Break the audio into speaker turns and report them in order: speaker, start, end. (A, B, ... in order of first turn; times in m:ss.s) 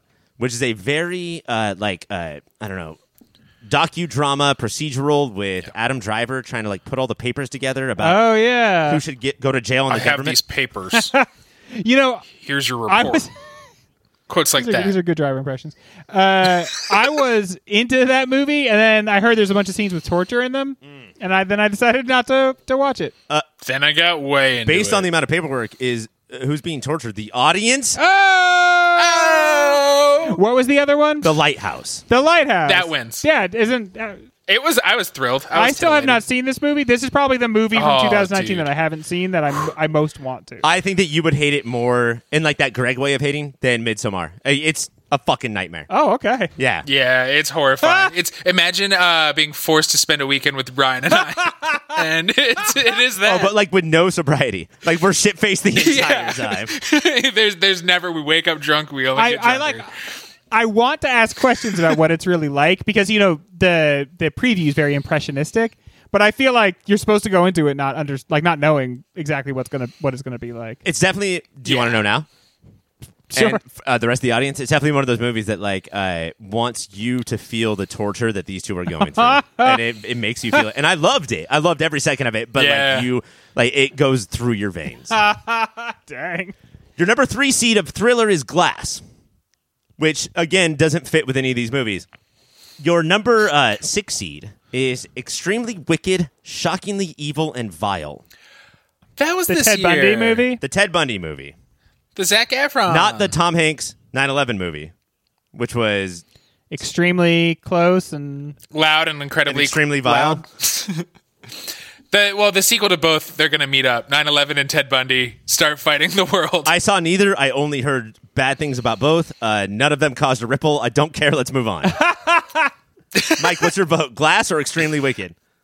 0:00.4-0:03.0 A
0:03.7-0:08.2 A
0:08.0-0:09.0 B
0:08.9-0:10.4 A
0:09.9-0:11.1 C
0:10.9-0:12.3 B
0:12.4-0:13.3 C
0:12.9-0:13.3 B
0:14.3-0:15.0 C
0:14.6-0:23.1 B
0:23.6-0:25.1 C
0:24.6-0:28.0 A
0:28.0-0:31.3 B
0:29.0-0:30.4 C
0:31.2-0:32.0 A
0:32.1-0:34.2 B
0:32.7-0:33.2 C
0:34.5-0:36.2 C
0:35.5-0:40.6 B
0:37.7-0:38.7 C
0:40.6-0:45.9 A
0:45.9-0:46.5 B
0:46.6-0:46.9 A
0:46.8-0:53.5 C
0:47.8-0:48.1 B
0:51.4-0:52.0 B
0:53.2-0:56.7 A
0:55.8-0:59.9 C
0:59.2-0:59.9 B
1:00.5-1:10.8 B
1:10.8-1:12.3 A
1:11.7-1:12.0 C
1:13.3-1:13.6 B
1:13.3-1:25.2 A
1:19.0-1:19.8 B
1:22.6-1:23.1 C
1:25.1-1:26.5 B
1:27.0-1:29.0 A
1:30.0-1:32.1 A
1:32.8-1:38.2 A
1:39.2-1:40.5 C
1:39.5-1:40.6 B
1:40.6-1:41.5 A
1:42.2-1:43.3 C
1:42.9-1:44.9 A
1:45.5-1:46.2 A
1:46.7-1:48.6 B
1:48.7-1:51.1 C
1:49.5-1:50.4 A
1:50.1-1:50.4 B
1:52.1-1:56.7 C
1:56.6-2:02.0 A
2:01.9-2:02.7 B
2:03.2-2:03.5 C
2:03.3-2:05.4 A